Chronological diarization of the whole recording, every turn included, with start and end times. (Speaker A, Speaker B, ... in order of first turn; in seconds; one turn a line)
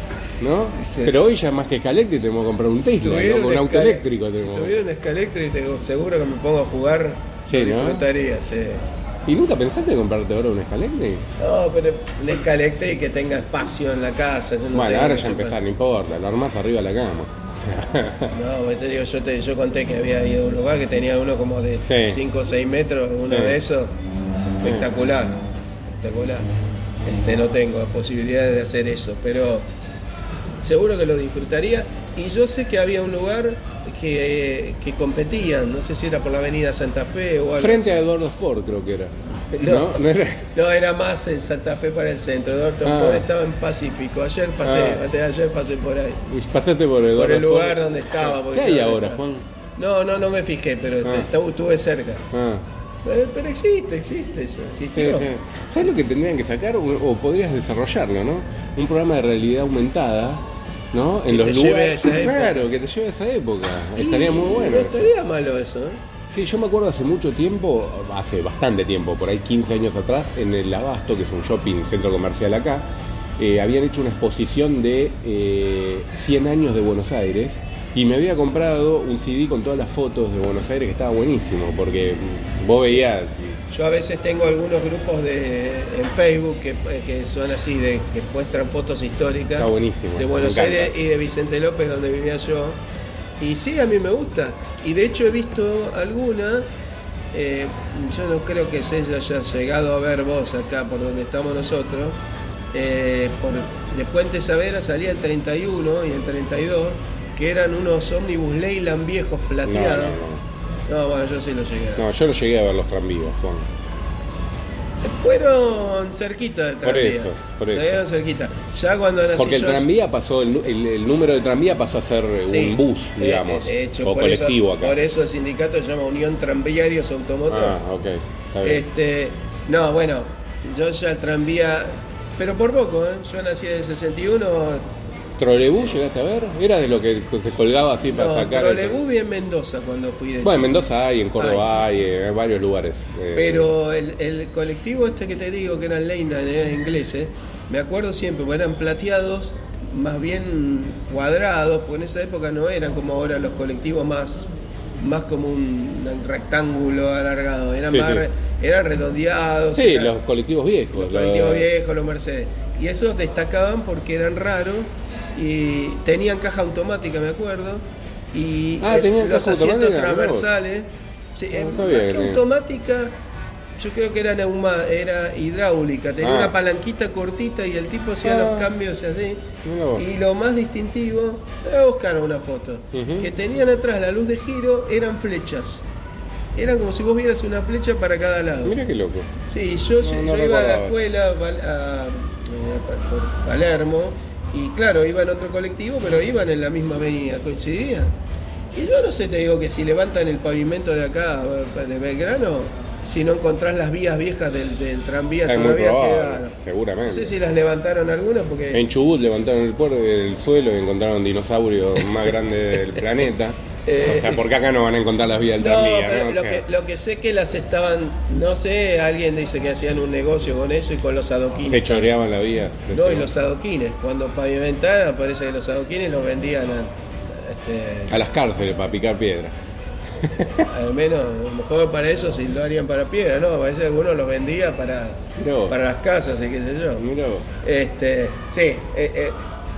Speaker A: 0.4-4.7
Speaker B: 0.8-1.3
Speaker B: 3.0-8.8
Speaker A: 7.5-8.1
Speaker A: 9.3-11.3
Speaker B: 11.4-15.6
Speaker A: 14.7-18.4
Speaker B: 18.3-23.9
Speaker A: 21.8-22.2
Speaker A: 23.3-23.6
Speaker B: 24.6-26.5
Speaker B: 27.0-29.7
Speaker B: 30.6-38.0
Speaker A: 37.6-40.5
Speaker B: 39.5-40.0
Speaker B: 40.5-46.2
Speaker A: 42.8-43.3
Speaker A: 44.6-45.1
Speaker A: 46.3-49.4
Speaker B: 47.1-49.2
Speaker B: 49.8-52.2
Speaker A: 52.3-52.6
Speaker B: 53.0-55.3
Speaker A: 54.9-60.4
Speaker A: 60.9-65.1
Speaker B: 61.3-62.6
Speaker B: 64.0-66.0
Speaker A: 66.3-83.6
Speaker B: 83.7-92.8
Speaker A: 89.6-90.9
Speaker B: 93.4-96.7
Speaker B: 97.3-102.2
Speaker B: 102.7-110.2
Speaker A: 109.7-110.4
Speaker B: 110.9-112.1
Speaker A: 112.0-113.7
Speaker B: 115.0-119.9
Speaker A: 116.8-118.0
Speaker A: 119.4-125.0
Speaker B: 122.4-127.8
Speaker A: 127.5-128.8
Speaker B: 128.6-134.9
Speaker A: 135.4-139.0
Speaker B: 138.1-140.8
Speaker A: 140.4-143.7
Speaker B: 141.4-141.7
Speaker B: 143.3-160.1
Speaker A: 157.9-158.2
Speaker A: 159.8-161.7
Speaker B: 160.9-173.1
Speaker A: 168.8-170.5
Speaker A: 171.5-172.4
Speaker B: 173.8-179.4
Speaker A: 176.2-176.5
Speaker A: 178.2-178.7
Speaker A: 179.6-180.1
Speaker B: 179.9-185.9
Speaker A: 182.9-183.3
Speaker B: 186.6-188.8
Speaker A: 188.6-189.3
Speaker B: 189.5-198.1
Speaker A: 190.0-191.0
Speaker B: 198.7-206.5
Speaker A: 205.5-207.3
Speaker B: 207.1-208.8
Speaker A: 208.7-216.6
Speaker B: 213.9-214.5
Speaker B: 215.6-222.1
Speaker A: 221.7-223.3
Speaker B: 222.9-228.2
Speaker A: 228.1-229.6
Speaker A: 230.2-230.7
Speaker B: 230.6-237.1
Speaker A: 235.4-235.8
Speaker A: 237.0-237.5
Speaker B: 237.6-239.4